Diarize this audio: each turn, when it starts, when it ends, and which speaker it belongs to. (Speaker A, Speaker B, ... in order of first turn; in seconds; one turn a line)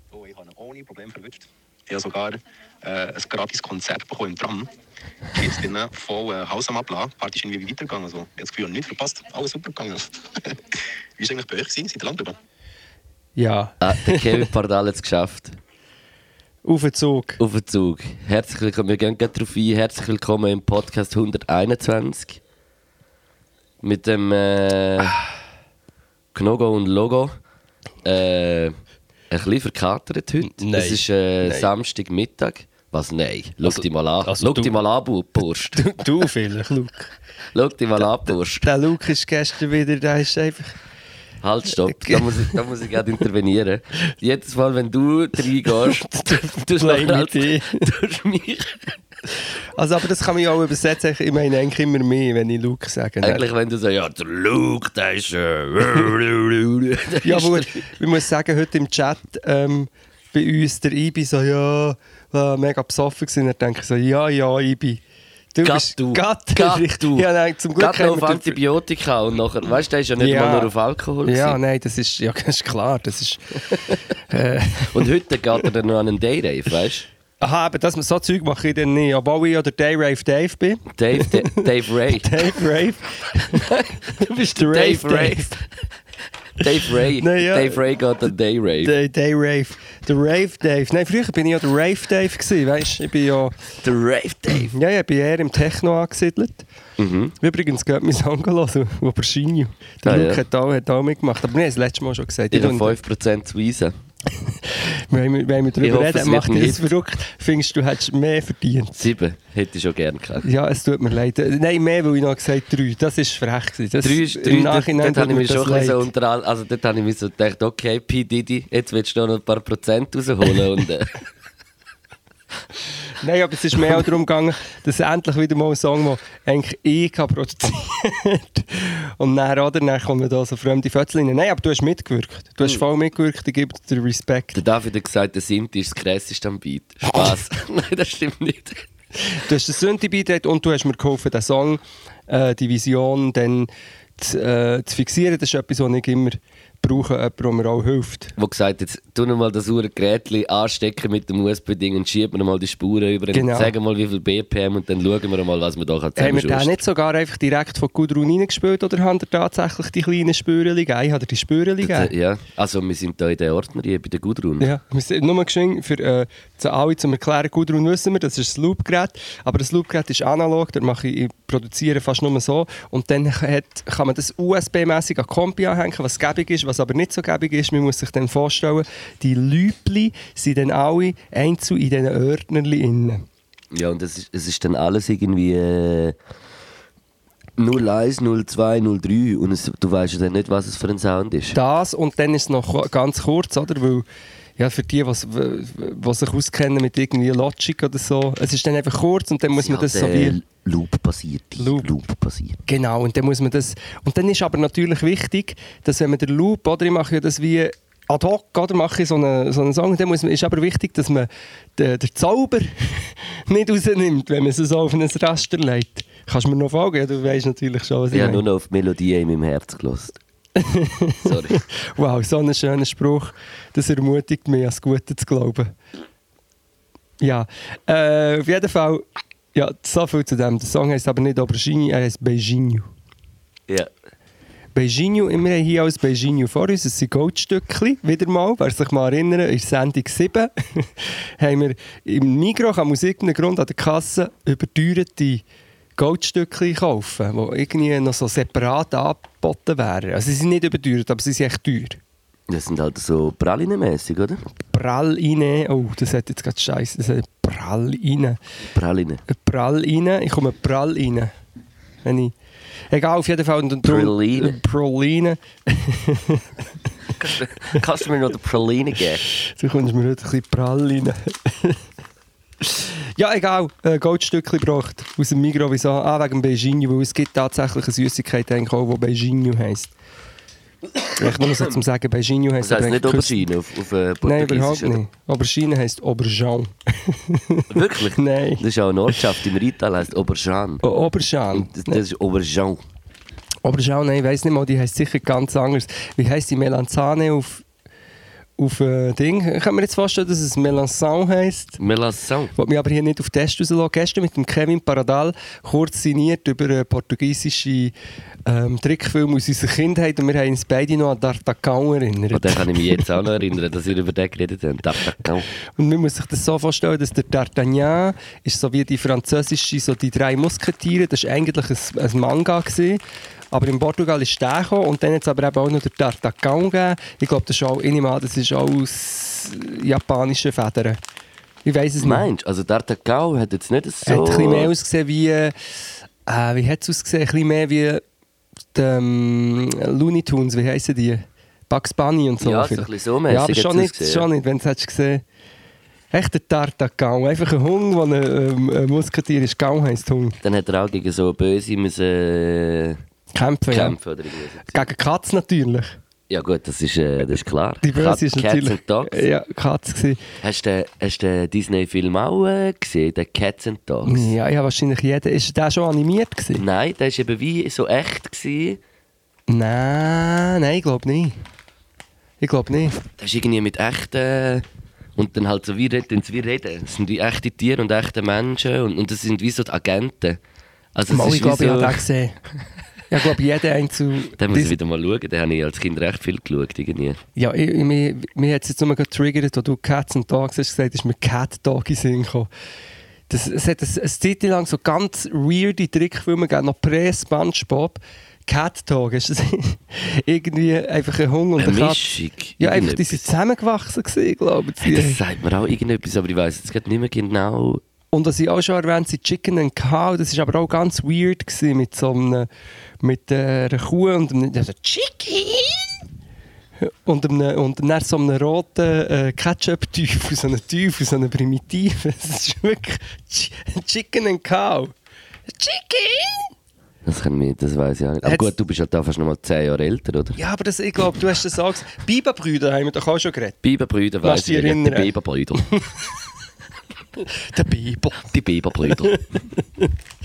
Speaker A: 0.1-4.7
Speaker A: 5.3-12.4
Speaker B: 13.4-14.5
Speaker C: 13.8-15.6
Speaker B: 16.6-17.4
Speaker C: 17.4-22.4
Speaker C: 23.8-25.2
Speaker C: 26.3-27.3
Speaker C: 28.0-28.8
Speaker C: 29.3-35.9
Speaker B: 30.4-31.7
Speaker B: 33.6-34.8
Speaker B: 35.7-37.1
Speaker C: 37.5-38.7
Speaker B: 38.6-40.8
Speaker C: 41.4-49.0
Speaker B: 41.8-42.6
Speaker B: 45.7-47.9
Speaker B: 49.8-53.5
Speaker C: 53.2-57.8
Speaker B: 57.2-65.0
Speaker B: 65.5-68.6
Speaker C: 65.6-71.6
Speaker B: 70.2-70.7
Speaker B: 71.2-75.1
Speaker C: 73.7-74.0
Speaker C: 74.9-77.1
Speaker B: 77.4-85.5
Speaker C: 81.0-82.4
Speaker C: 83.5-85.7
Speaker C: 86.6-88.9
Speaker B: 87.1-87.8
Speaker B: 88.8-93.6
Speaker C: 93.8-94.7
Speaker B: 94.7-96.7
Speaker C: 97.0-97.3
Speaker B: 97.4-103.0
Speaker C: 100.0-100.4
Speaker C: 102.5-104.0
Speaker B: 104.3-109.1
Speaker C: 105.8-106.9
Speaker C: 109.0-110.5
Speaker B: 110.4-116.1
Speaker C: 114.0-121.2
Speaker B: 123.2-134.6
Speaker C: 134.5-138.9
Speaker B: 139.2-148.3
Speaker C: 148.4-156.8
Speaker B: 153.3-153.7
Speaker B: 156.2-162.1
Speaker C: 161.8-164.7
Speaker B: 164.6-183.3
Speaker C: 183.7-186.2
Speaker C: 187.6-191.6
Speaker B: 191.5-194.1
Speaker B: 194.6-200.4
Speaker C: 199.6-202.6
Speaker B: 201.6-201.9
Speaker B: 202.7-218.4
Speaker C: 218.1-220.2
Speaker B: 220.6-225.7
Speaker C: 221.2-221.6
Speaker B: 227.2-229.0
Speaker B: 229.6-232.9
Speaker B: 234.8-245.4
Speaker B: 246.0-252.0
Speaker C: 252.5-254.4
Speaker B: 254.7-258.4
Speaker C: 258.7-259.2
Speaker B: 259.3-261.3
Speaker B: 262.0-262.4
Speaker B: 262.9-266.5
Speaker C: 263.8-264.6
Speaker C: 267.2-269.2
Speaker B: 269.4-271.8
Speaker B: 272.6-279.9
Speaker C: 280.9-281.8
Speaker B: 281.2-283.4
Speaker C: 282.6-285.0
Speaker B: 284.2-288.6
Speaker C: 287.7-290.8
Speaker B: 290.8-292.0
Speaker C: 291.5-292.8
Speaker B: 293.6-297.6
Speaker B: 298.6-301.8
Speaker C: 301.8-302.5
Speaker B: 302.6-307.9
Speaker B: 308.5-313.0
Speaker C: 312.3-315.5
Speaker B: 315.8-331.0
Speaker B: 331.6-332.3
Speaker C: 332.0-334.7
Speaker B: 334.1-335.6
Speaker B: 336.3-338.0
Speaker B: 338.8-345.2
Speaker C: 342.4-344.3
Speaker B: 346.1-350.4
Speaker C: 350.4-353.0
Speaker B: 353.4-354.0
Speaker C: 353.7-354.9
Speaker B: 354.7-356.0
Speaker C: 356.3-359.2
Speaker B: 357.8-360.2
Speaker C: 360.4-364.3
Speaker B: 364.1-366.6
Speaker C: 366.6-368.8
Speaker B: 369.5-371.4
Speaker B: 372.4-373.0
Speaker C: 373.2-380.4
Speaker C: 380.9-382.0
Speaker B: 381.1-382.4
Speaker B: 383.1-384.8
Speaker C: 384.4-387.2
Speaker B: 387.4-392.5
Speaker B: 393.3-402.0
Speaker C: 401.6-403.3
Speaker B: 402.6-405.2
Speaker C: 404.8-407.8
Speaker B: 408.1-412.5
Speaker B: 413.0-415.9
Speaker B: 416.8-424.9
Speaker B: 425.5-426.5
Speaker C: 427.1-430.4
Speaker B: 428.2-428.5
Speaker B: 430.4-433.6
Speaker C: 433.6-435.7
Speaker B: 434.2-436.0
Speaker B: 437.2-438.3
Speaker C: 438.3-439.2
Speaker B: 438.8-439.9